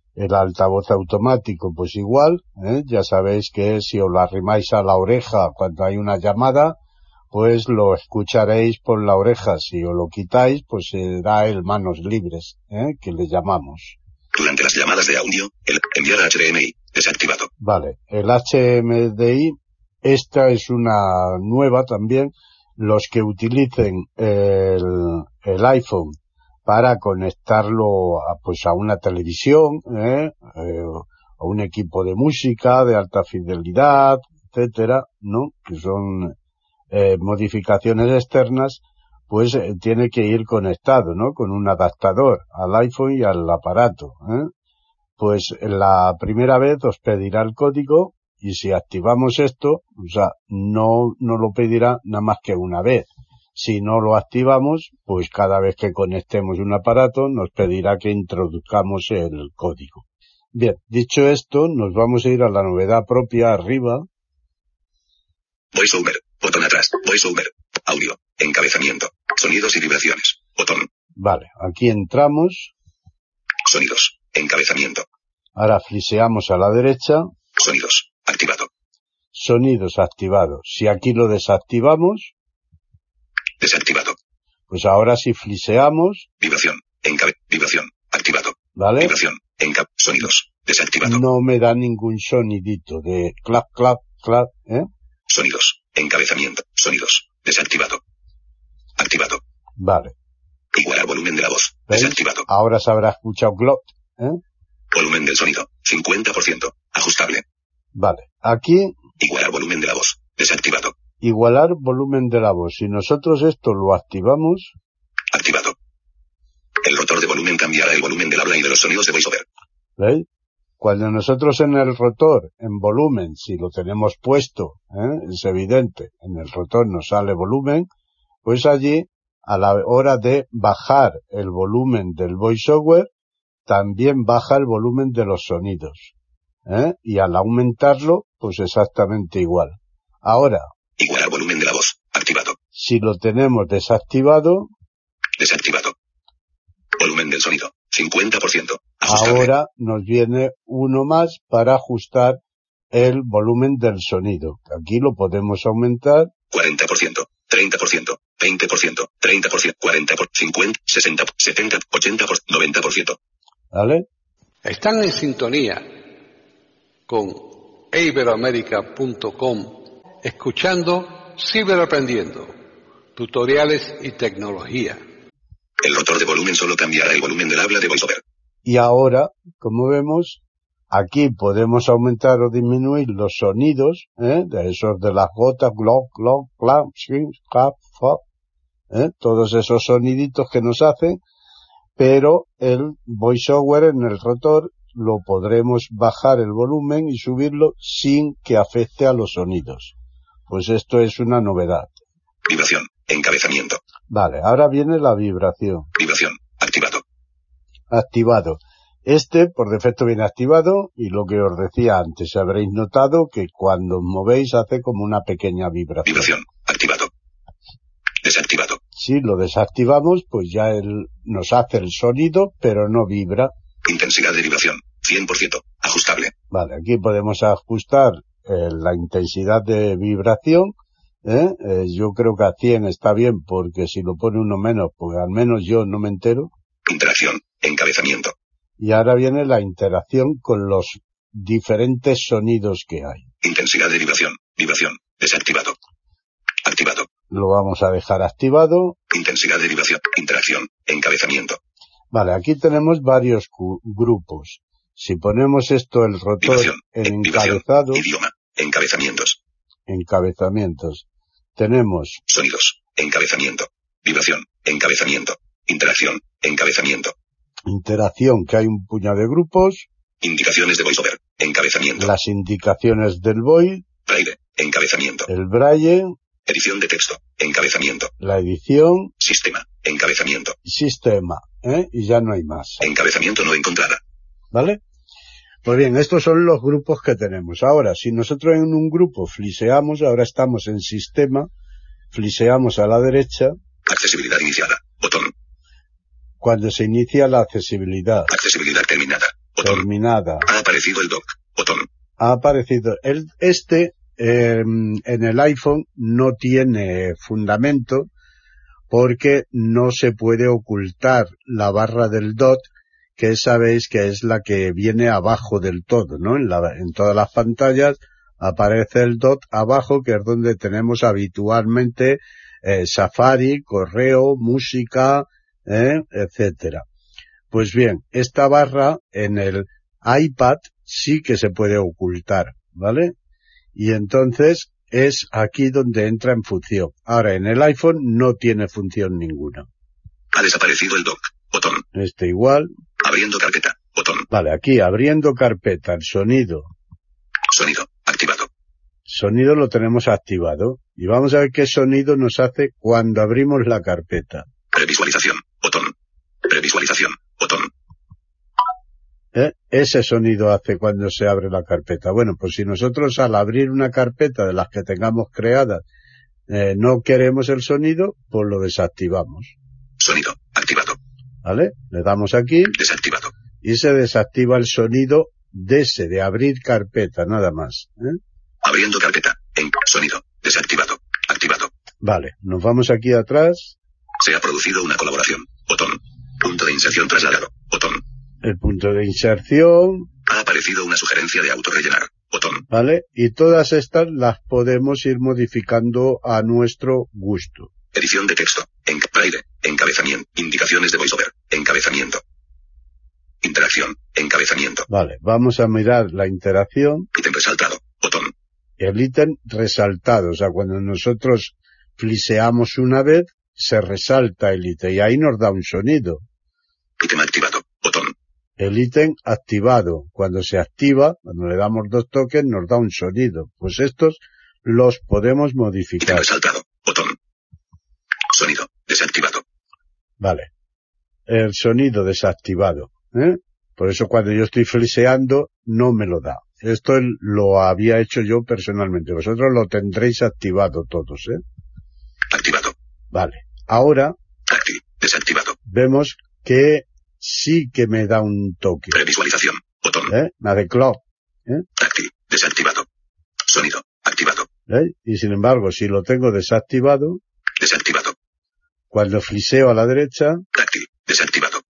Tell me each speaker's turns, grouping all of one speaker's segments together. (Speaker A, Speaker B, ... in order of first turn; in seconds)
Speaker A: 0.1-6.8, 7.3-14.0, 17.6-36.3, 36.9-44.5, 45.2-64.0, 71.2-72.7, 75.5-77.3, 79.3-82.3, 84.7-86.3, 88.8-89.1, 91.0-94.9, 99.8-100.1, 101.9-104.4, 108.0-108.9, 111.2-114.7, 120.0-120.2, 120.8-127.9, 128.4-133.1, 133.7-136.1, 136.7-140.6, 142.7-144.7, 149.1-152.4, 152.9-156.3, 163.7-164.0, 178.7-188.2, 188.9-191.2, 192.0-199.9, 200.5-202.0, 204.1-205.9, 207.9-216.3, 218.9-223.5, 226.5-230.7, 231.2-236.5, 238.8-243.2, 247.3-249.0, 252.1-258.1, 259.9-261.0, 261.6-262.2, 267.7-269.9, 272.0-273.8, 275.3-276.1, 278.2-279.1, 280.6-282.8, 284.5-284.8, 285.6-291.5, 292.1-293.5, 296.4-298.3, 299.6-300.5, 302.2-308.1, 308.9-326.8, 327.5-333.1, 333.8-339.7, 341.9-342.7, 344.3-346.7, 349.1-354.4, 359.3-365.8, 366.5-369.5, 371.4-372.8, 373.6-378.2, 382.0-383.8, 388.4-390.1, 392.7-397.7, 404.9-407.1, 408.8-416.2, 418.6-426.3, 430.2-430.5, 431.3-441.4, 443.1-444.1, 445.6-449.0, 450.1-451.6, 454.7-457.2, 458.9-460.4
Speaker B: 14.3-17.5, 65.7-70.9, 73.6-75.0, 77.6-78.7, 83.6-84.2, 86.4-91.2, 95.3-98.0, 99.0-99.4, 100.7-102.5, 104.9-107.4, 109.2-111.0, 115.3-115.8, 116.8-119.5, 141.0-142.6, 145.4-145.9, 147.0-149.5, 156.5-163.2, 175.8-178.2, 202.4-203.8, 205.9-207.0, 216.1-217.1, 218.2-218.8, 223.8-226.3, 236.8-238.3, 243.4-245.8, 246.6-247.1, 249.1-251.6, 256.4-259.4, 262.3-267.1, 270.2-272.1, 274.1-275.3, 276.5-278.1, 279.2-280.6, 282.8-284.0, 293.9-295.3, 298.3-299.8, 300.4-301.9, 340.3-341.8, 343.0-344.3, 347.5-348.5, 354.7-355.9, 356.4-357.7, 370.0-371.0, 372.8-373.3, 378.6-381.7, 384.2-388.0, 390.2-392.6, 397.9-402.2, 403.4-404.9, 407.1-408.3, 417.0-418.1, 426.0-427.1, 428.3-429.4, 442.3-442.7, 444.5-445.6, 448.9-450.1, 451.8-452.9, 453.4-454.5, 457.6-458.1, 460.5-461.6
Speaker C: 164.6-165.9, 167.1-172.5, 173.2-175.0